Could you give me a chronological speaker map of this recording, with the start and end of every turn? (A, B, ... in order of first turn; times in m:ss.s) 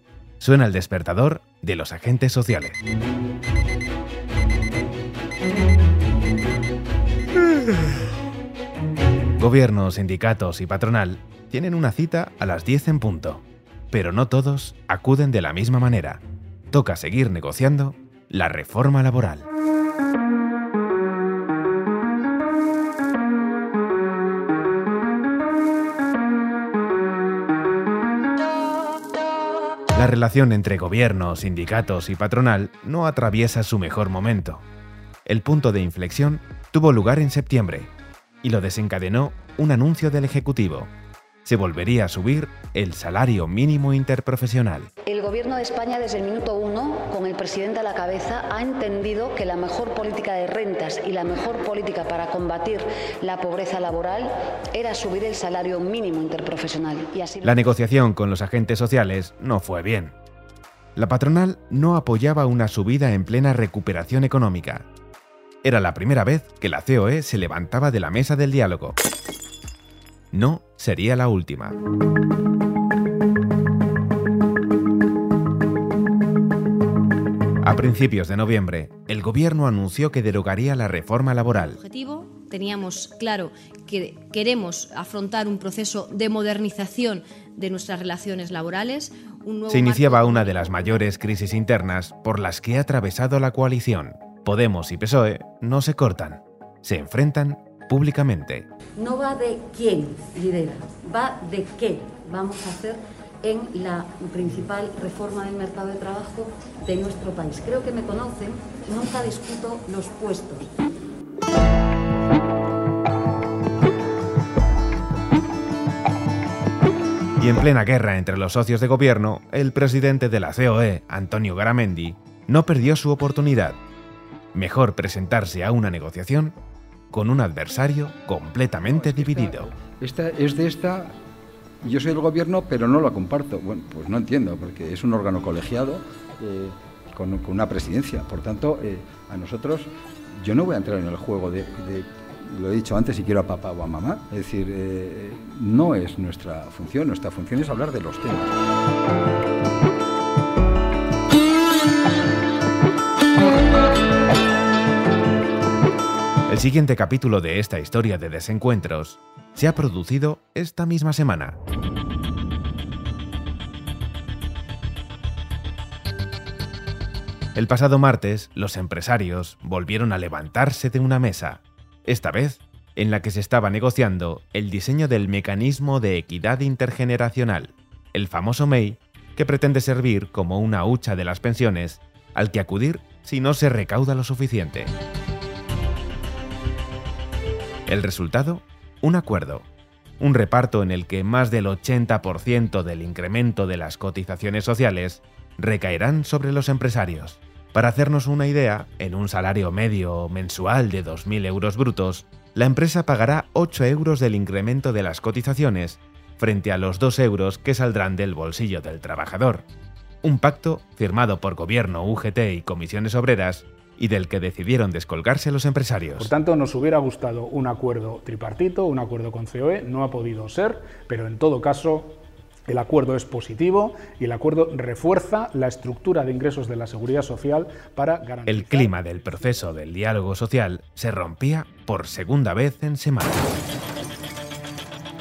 0:00.4-0:02.8 A
0:09.4-0:19.4 A
0:29.9-0:34.6 A
0:35.2-0:37.9 A
0:38.4-0:40.9 A
0:41.4-0:44.9 A
0:45.1-0:57.6 B
0:57.4-1:00.1 A
1:01.0-1:04.9 A
1:05.6-1:09.0 A
1:10.3-1:11.8 A
1:17.6-1:21.8 A
1:21.6-1:30.7 C
1:29.7-1:38.7 A
1:39.0-1:50.7 B
1:57.4-2:03.8 A
2:04.5-2:06.5 A
2:07.1-2:09.7 A
2:08.8-2:11.1 D
2:11.8-2:28.5 D
2:36.5-2:41.6 A
2:47.5-3:04.9 A
3:07.9-3:09.7 A
3:10.2-3:29.6 A
3:30.2-3:36.3 A
3:36.2-3:49.5 E
3:48.4-3:53.5 A